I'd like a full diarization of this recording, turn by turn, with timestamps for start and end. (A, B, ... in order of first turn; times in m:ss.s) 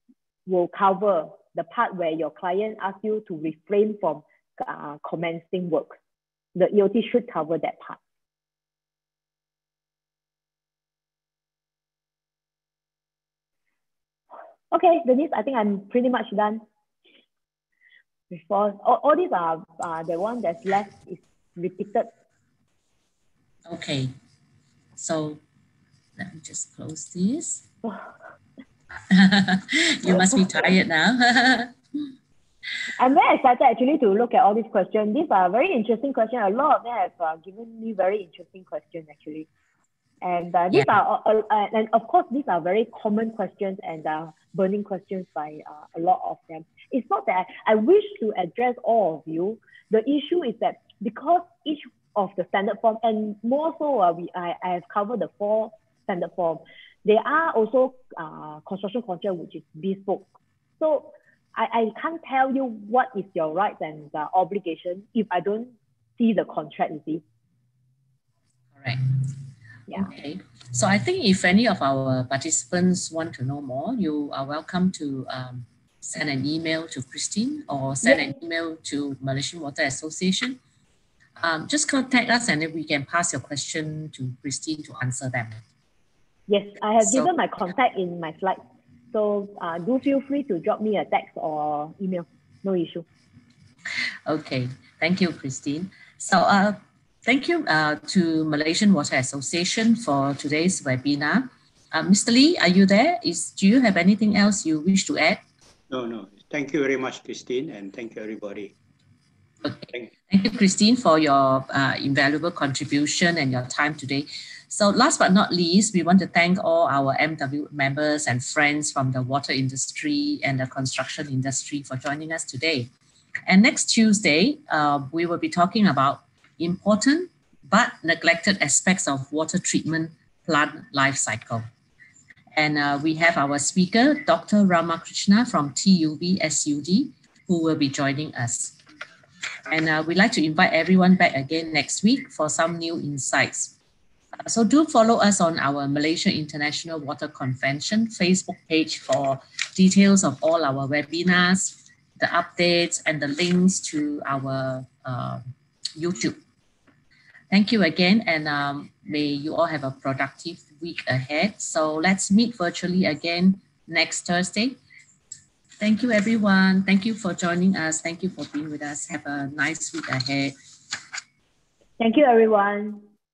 0:00.4-0:06.0 A
0:06.5-0:08.0 A
0:14.7-0:16.6 A
0:18.3-0:22.1 A
0:23.7-0:24.1 B
0:25.0-0:25.4 B
0:26.2-0:27.6 B
0:29.1-0:31.7 B
0:32.9-0:39.5 A
0:40.2-1:00.3 A
1:00.8-1:07.2 A
1:08.8-1:09.4 B
1:09.9-1:20.6 B
1:21.4-1:25.6 B
1:26.5-1:33.0 A
1:27.0-1:27.3 B
1:34.2-1:45.4 B
1:45.9-1:48.7 C
1:49.6-2:02.9 B
2:03.5-2:11.6 B
2:12.5-2:18.8 B
2:19.7-2:23.7 B
2:24.4-2:35.4 B
2:36.0-2:36.4 B
2:37.5-2:44.8 B
2:45.8-2:50.5 B
2:52.0-2:53.0 A